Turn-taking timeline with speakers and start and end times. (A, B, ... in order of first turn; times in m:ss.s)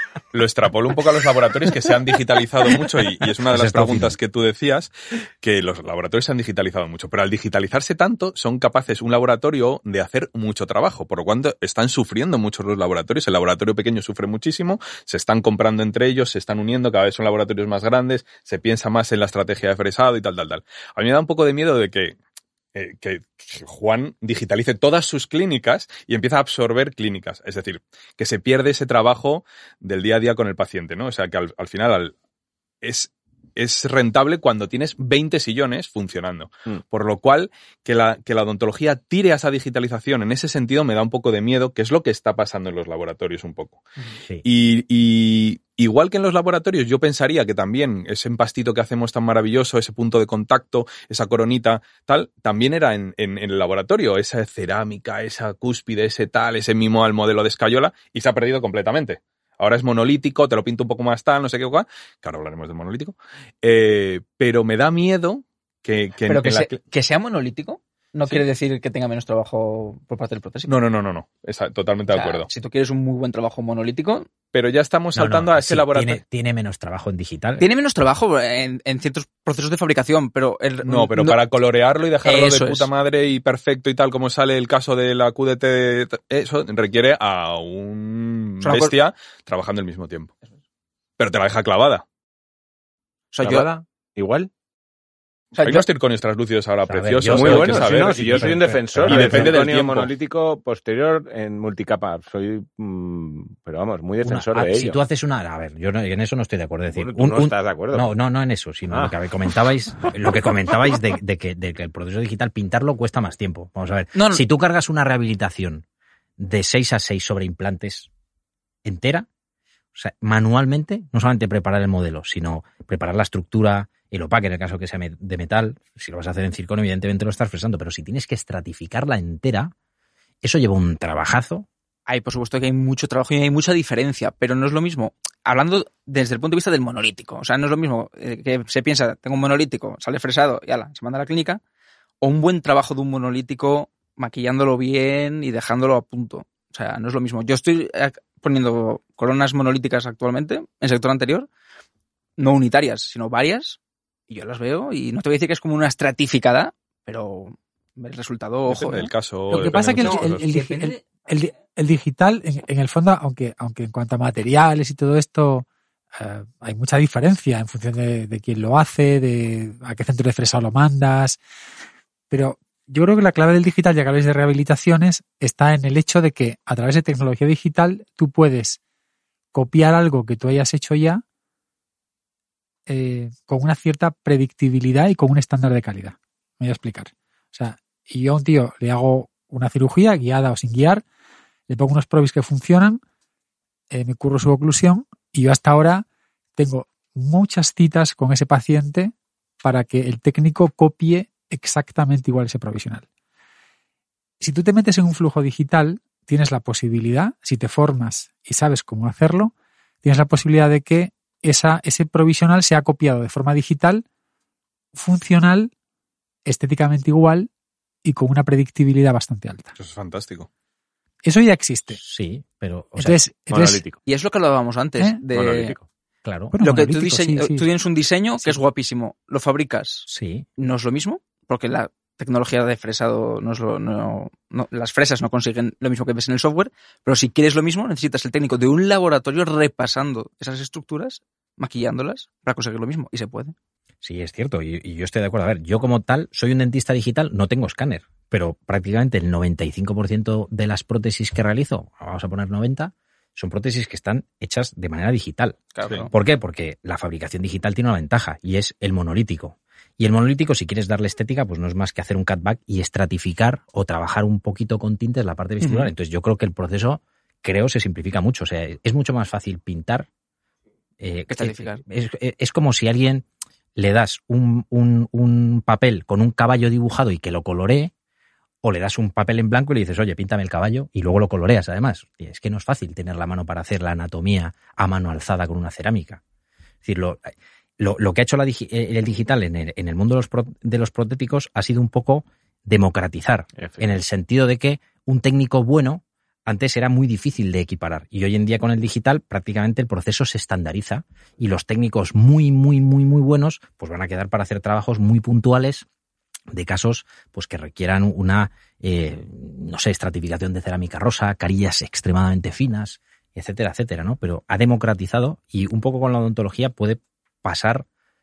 0:00.3-0:22.2 A
0:03.5-0:04.2 B
0:22.7-0:32.1 A
0:32.8-0:43.8 A
0:44.4-1:06.8 A
1:06.3-1:10.8 C
1:10.7-1:12.5 A
1:12.1-1:14.3 C
1:14.5-1:16.2 A
1:15.1-1:17.6 B
1:17.6-1:21.4 C
1:20.8-1:30.3 A
1:22.2-1:22.9 C
1:28.6-1:29.0 C
1:31.2-1:32.0 A
1:33.3-1:33.8 C
1:33.4-1:34.5 D
1:35.6-1:35.9 C
1:35.6-1:40.1 A
1:36.9-1:39.6 B
1:37.2-1:45.0 D
1:44.2-1:55.8 B
1:46.9-1:48.1 D
1:54.1-1:54.4 C
1:56.4-1:58.1 B
1:58.8-1:59.3 B
1:59.9-2:09.7 B
2:10.4-2:11.7 B
2:12.1-2:21.6 C
2:22.2-2:31.5 C
2:32.4-2:41.0 C
2:38.7-2:40.5 A
2:39.5-2:45.6 E
2:46.2-2:51.4 E
2:52.3-2:58.8 E
2:59.5-3:01.2 E
3:02.9-3:11.0 E
3:11.7-3:13.0 E
3:13.9-3:16.0 E
3:16.6-3:23.0 E
3:24.4-3:29.5 E
3:30.0-3:34.0 E
3:34.9-3:35.7 E
3:36.4-3:37.5 E
3:38.0-3:39.7 E
3:39.8-3:40.5 A
3:41.2-3:42.0 E
3:41.9-3:43.2 B
3:43.0-3:43.8 E
3:43.5-3:44.0 D
3:44.0-3:45.8 C
3:45.3-3:45.8 D
3:46.2-3:46.6 B
3:46.5-3:47.6 E
3:46.6-4:03.6 C
3:50.1-3:50.4 B
4:04.0-4:15.6 B
4:15.7-4:16.1 C
4:16.1-4:30.1 B
4:25.6-4:25.9 C
4:31.0-4:37.9 B
4:31.3-4:31.8 C
4:38.6-4:46.2 B
4:46.8-5:05.9 B
4:53.6-4:53.9 D
5:06.5-5:17.9 B